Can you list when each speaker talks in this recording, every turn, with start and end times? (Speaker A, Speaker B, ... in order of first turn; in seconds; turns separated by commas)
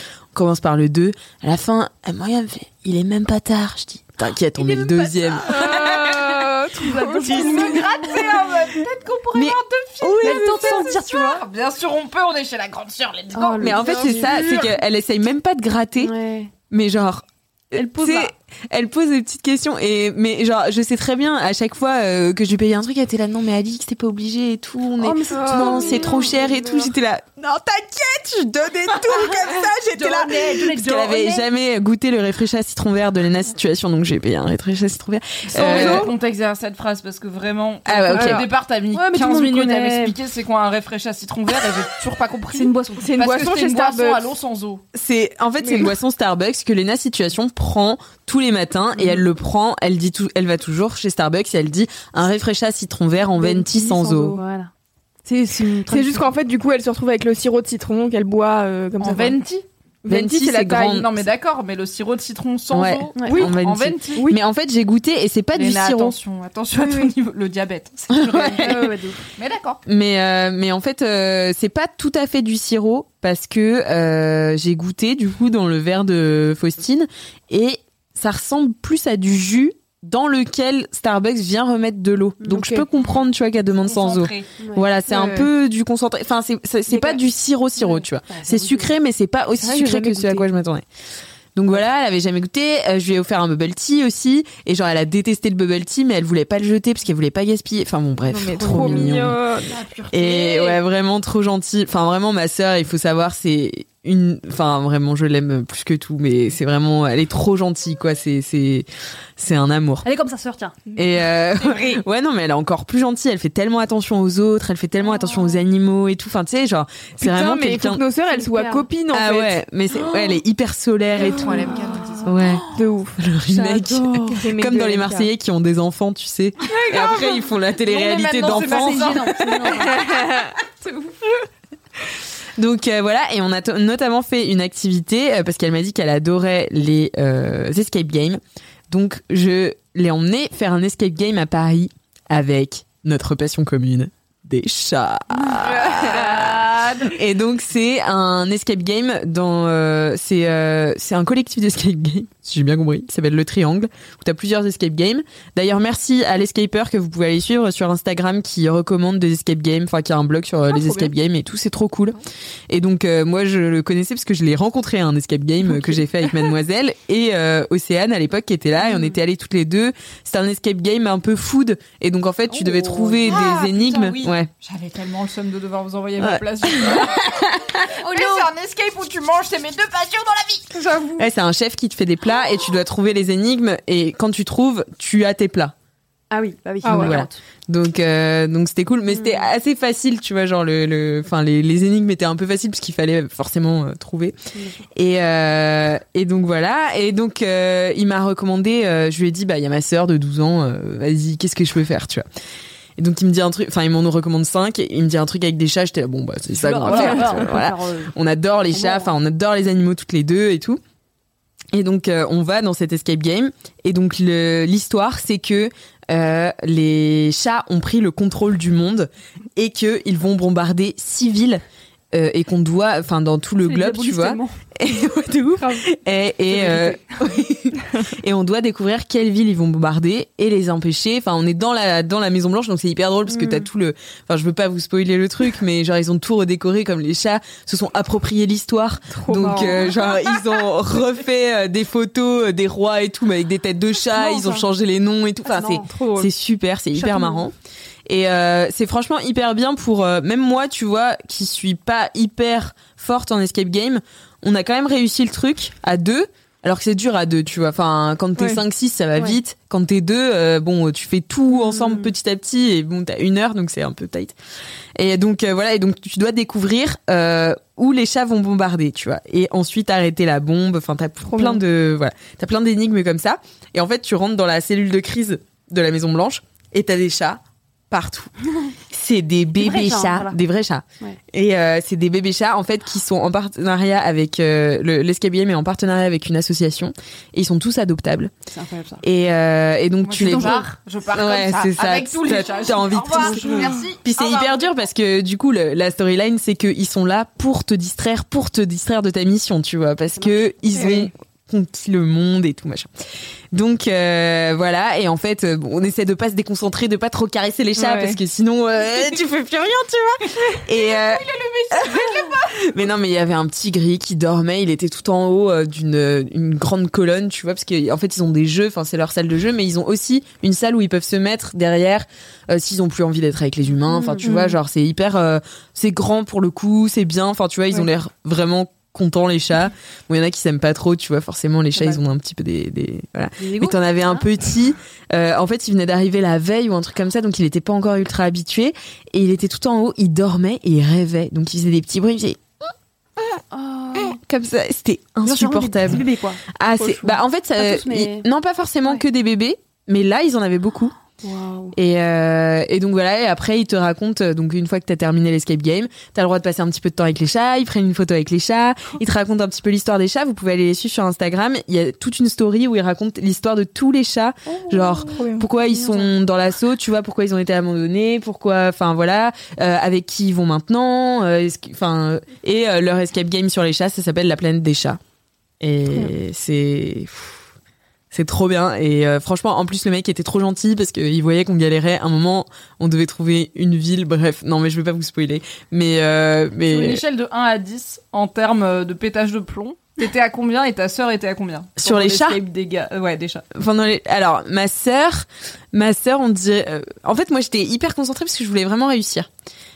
Speaker A: 0.3-6.3, Speaker B: 4.6-6.4, Speaker C: 5.5-7.8, Speaker D: 6.8-8.5, Speaker B: 7.2-14.8, Speaker A: 7.3-7.7, Speaker A: 9.3-10.8, Speaker D: 10.2-11.4, Speaker D: 13.3-14.3, Speaker A: 13.6-16.1, Speaker D: 16.0-16.5, Speaker A: 16.7-36.1, Speaker D: 17.8-18.3, Speaker D: 25.0-26.5, Speaker C: 25.4-26.4, Speaker D: 29.9-31.5, Speaker B: 35.5-44.8, Speaker C: 35.6-36.1, Speaker A: 37.9-38.5, Speaker C: 38.1-38.5, Speaker D: 38.9-40.2, Speaker D: 42.5-43.1, Speaker C: 43.0-44.2, Speaker A: 44.9-54.4, Speaker C: 45.6-45.9, Speaker D: 53.4-54.7, Speaker D: 55.2-56.3, Speaker C: 55.9-59.4, Speaker B: 59.0-59.6, Speaker C: 60.0-61.0, Speaker A: 60.1-61.2, Speaker B: 60.5-64.3, Speaker A: 62.7-66.2, Speaker D: 63.2-63.4, Speaker B: 65.5-68.8, Speaker C: 66.8-67.1, Speaker A: 68.1-68.9, Speaker D: 68.4-69.2, Speaker B: 69.4-69.8, Speaker A: 69.9-90.8, Speaker D: 82.4-82.7, Speaker C: 82.5-82.8, Speaker B: 83.8-84.5, Speaker D: 84.6-84.9, Speaker C: 85.1-85.5, Speaker D: 86.9-87.2, Speaker D: 87.8-88.9, Speaker C: 89.6-90.5, Speaker A: 91.5-99.4, Speaker C: 98.3-99.8, Speaker D: 98.6-99.2, Speaker B: 99.7-100.8, Speaker A: 100.1-110.1, Speaker D: 110.0-110.8, Speaker A: 111.0-118.0, Speaker B: 111.6-112.0, Speaker C: 117.2-119.6, Speaker D: 118.3-118.9, Speaker A: 119.1-121.7, Speaker B: 121.1-122.6, Speaker A: 122.2-122.6, Speaker C: 122.7-123.2, Speaker A: 123.2-129.3, Speaker D: 123.6-124.2, Speaker C: 123.7-125.3, Speaker B: 126.7-129.8, Speaker D: 128.5-130.0, Speaker C: 129.7-130.6, Speaker A: 132.6-174.5, Speaker B: 145.6-147.1, Speaker D: 172.6-173.2, Speaker B: 173.2-177.4, Speaker A: 176.2-178.0, Speaker B: 178.0-181.0, Speaker D: 178.0-178.5, Speaker D: 180.7-181.2, Speaker A: 181.2-185.7, Speaker D: 186.3-187.4, Speaker C: 186.8-187.2, Speaker A: 186.9-194.3, Speaker D: 189.1-189.5, Speaker D: 194.6-194.8, Speaker A: 194.9-202.2, Speaker A: 203.0-210.8, Speaker D: 206.5-208.1, Speaker D: 208.7-209.1, Speaker A: 211.7-247.5, Speaker D: 223.6-224.5, Speaker D: 226.6-226.9, Speaker D: 233.3-233.7, Speaker C: 239.1-239.9, Speaker D: 244.2-244.6, Speaker D: 245.4-245.9, Speaker C: 245.8-246.3, Speaker D: 247.0-247.4, Speaker A: 248.1-264.4, Speaker D: 261.5-262.1, Speaker A: 265.0-288.3, Speaker C: 271.3-271.6, Speaker D: 279.6-280.4, Speaker D: 288.5-289.0, Speaker A: 289.0-302.9, Speaker B: 290.0-294.8, Speaker D: 290.2-290.6, Speaker D: 293.3-293.7, Speaker C: 293.4-293.8, Speaker C: 300.8-301.1, Speaker A: 303.5-342.4, Speaker C: 307.8-308.2, Speaker B: 310.9-312.7, Speaker D: 323.9-324.3, Speaker D: 331.7-332.0, Speaker D: 333.4-334.2, Speaker D: 343.5-344.2, Speaker A: 344.0-350.9, Speaker D: 345.2-346.8, Speaker D: 347.6-348.3, Speaker D: 351.2-351.8, Speaker A: 351.7-375.0, Speaker D: 364.5-366.1, Speaker C: 365.0-365.5, Speaker A: 375.6-377.4, Speaker A: 378.1-387.0, Speaker B: 386.7-393.5, Speaker A: 391.8-392.4, Speaker A: 393.5-399.3